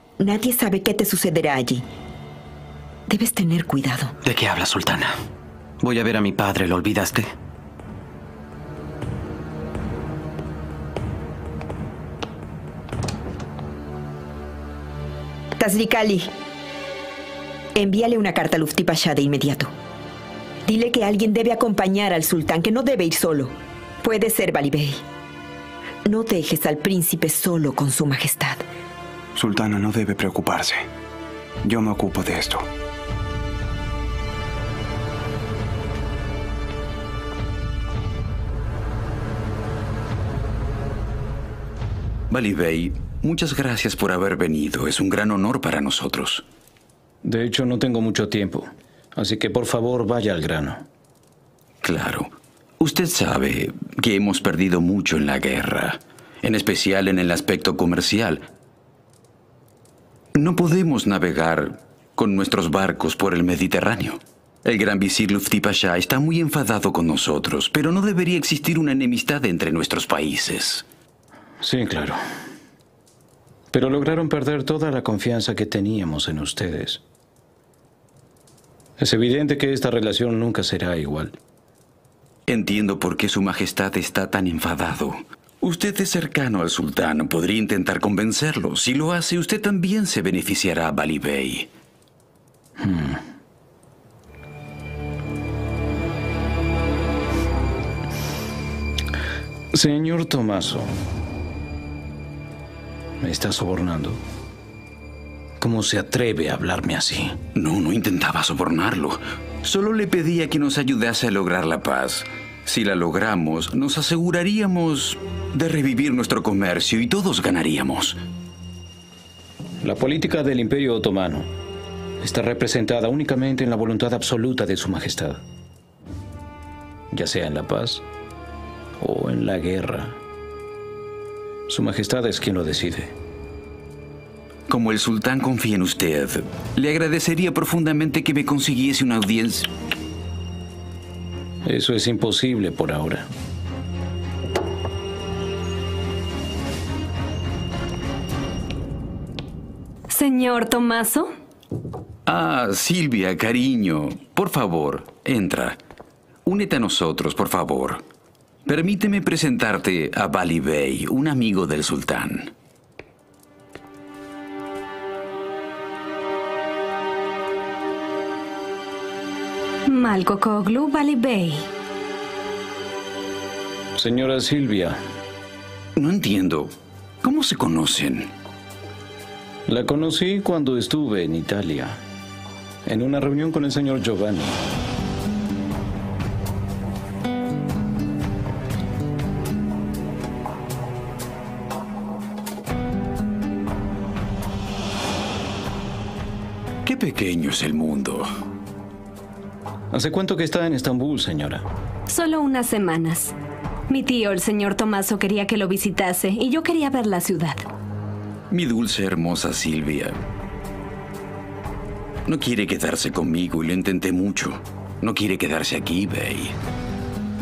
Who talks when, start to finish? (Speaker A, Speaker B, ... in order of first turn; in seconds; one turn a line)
Speaker A: 0.2-1.8
Speaker A: 3.1-4.1
Speaker B: 4.2-5.1
Speaker B: 5.8-7.3
Speaker A: 15.6-16.3
Speaker A: 17.7-19.7
Speaker A: 20.6-25.0
Speaker A: 26.0-28.6
Speaker C: 29.3-30.9
Speaker C: 31.6-32.7
Speaker D: 42.3-46.4
Speaker E: 47.2-50.9
Speaker D: 51.8-58.5
Speaker D: 60.3-70.8
Speaker E: 71.6-72.2
Speaker E: 73.7-77.0
Speaker E: 79.0-81.4
Speaker D: 82.5-91.7
Speaker E: 92.8-93.2
Speaker E: 99.7-100.9
Speaker E: 103.2-104.2
Speaker E: 105.6-107.4
Speaker D: 107.5-118.2
Speaker E: 119.8-121.5
Speaker E: 122.2-125.4
Speaker E: 127.1-128.0
Speaker E: 129.0-130.2
Speaker E: 131.7-133.1
Speaker D: 134.7-139.7
Speaker E: 141.7-143.3
Speaker F: 150.1-151.3
Speaker D: 152.2-155.8
Speaker D: 156.4-158.0
Speaker D: 158.7-162.5
Speaker F: 169.8-171.7
Speaker E: 173.9-175.0
Speaker D: 175.9-178.3
Speaker E: 179.7-182.0
Speaker E: 182.8-184.6
Speaker D: 196.8-198.3
Speaker E: 199.9-201.6
Speaker F: 202.1-203.3
Speaker F: 203.9-207.7
Speaker D: 208.5-210.2
Speaker D: 212.2-216.6